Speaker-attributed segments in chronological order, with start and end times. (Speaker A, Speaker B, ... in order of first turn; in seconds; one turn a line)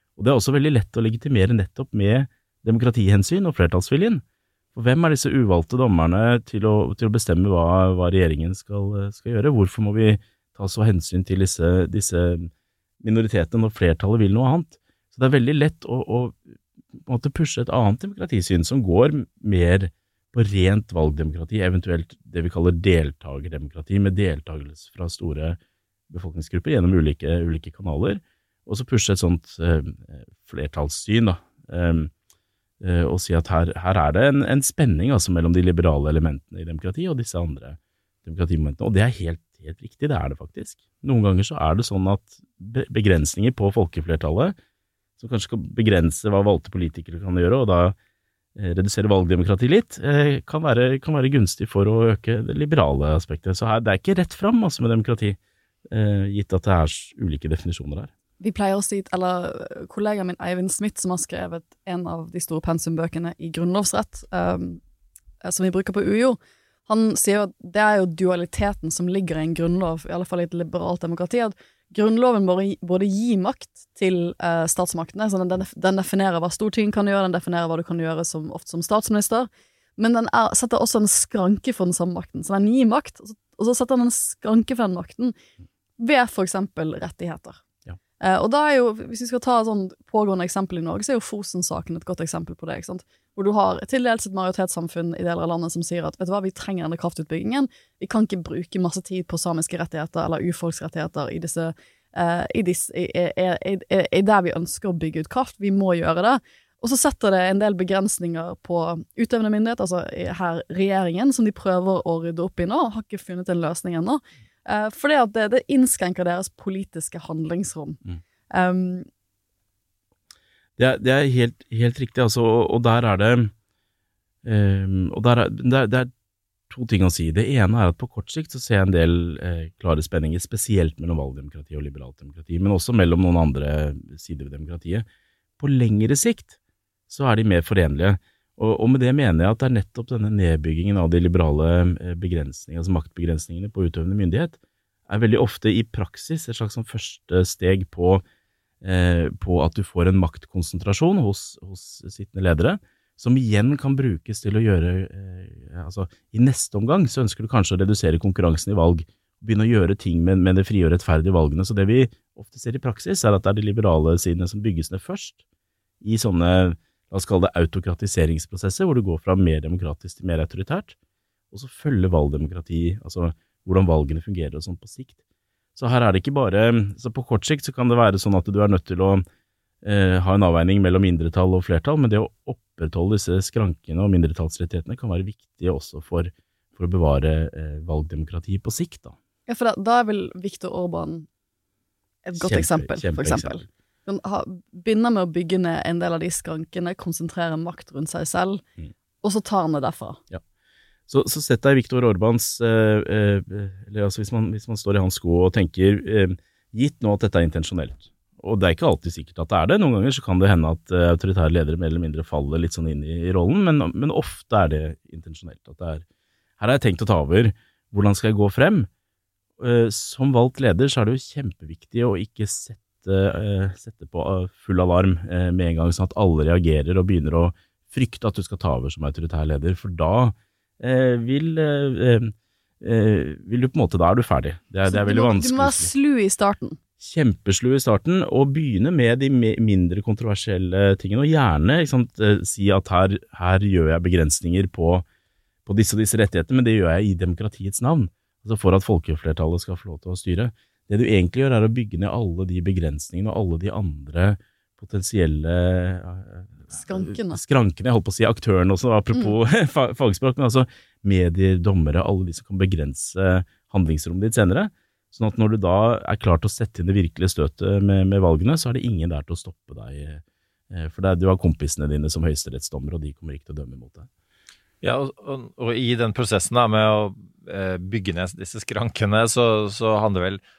Speaker A: 0.2-4.2
Speaker A: 4.7-25.6
Speaker A: 26.1-32.1
Speaker A: 32.8-44.5
Speaker A: 45.2-48.0
Speaker A: 48.5-55.4
Speaker A: 55.9-58.1
Speaker B: 58.4-64.8
Speaker B: 65.4-85.3
Speaker B: 86.0-87.6
Speaker B: 88.2-118.0
Speaker B: 118.5-119.1
Speaker A: 120.8-123.5
Speaker A: 124.4-126.1
Speaker A: 126.7-135.1
Speaker A: 135.6-136.6
Speaker A: 137.1-148.2
Speaker A: 148.8-165.4
Speaker A: 166.0-170.9
Speaker A: 171.5-175.2
Speaker A: 175.8-179.2
Speaker A: 179.8-189.2
Speaker B: 189.5-191.3
Speaker B: 192.2-198.6
Speaker A: 192.4-193.7
Speaker B: 199.2-200.2
Speaker A: 201.1-216.0
Speaker A: 216.6-218.9
Speaker A: 219.6-235.9
Speaker B: 234.8-236.8
Speaker A: 237.0-245.0
Speaker A: 245.7-274.1
Speaker B: 256.7-257.4
Speaker C: 274.8-280.4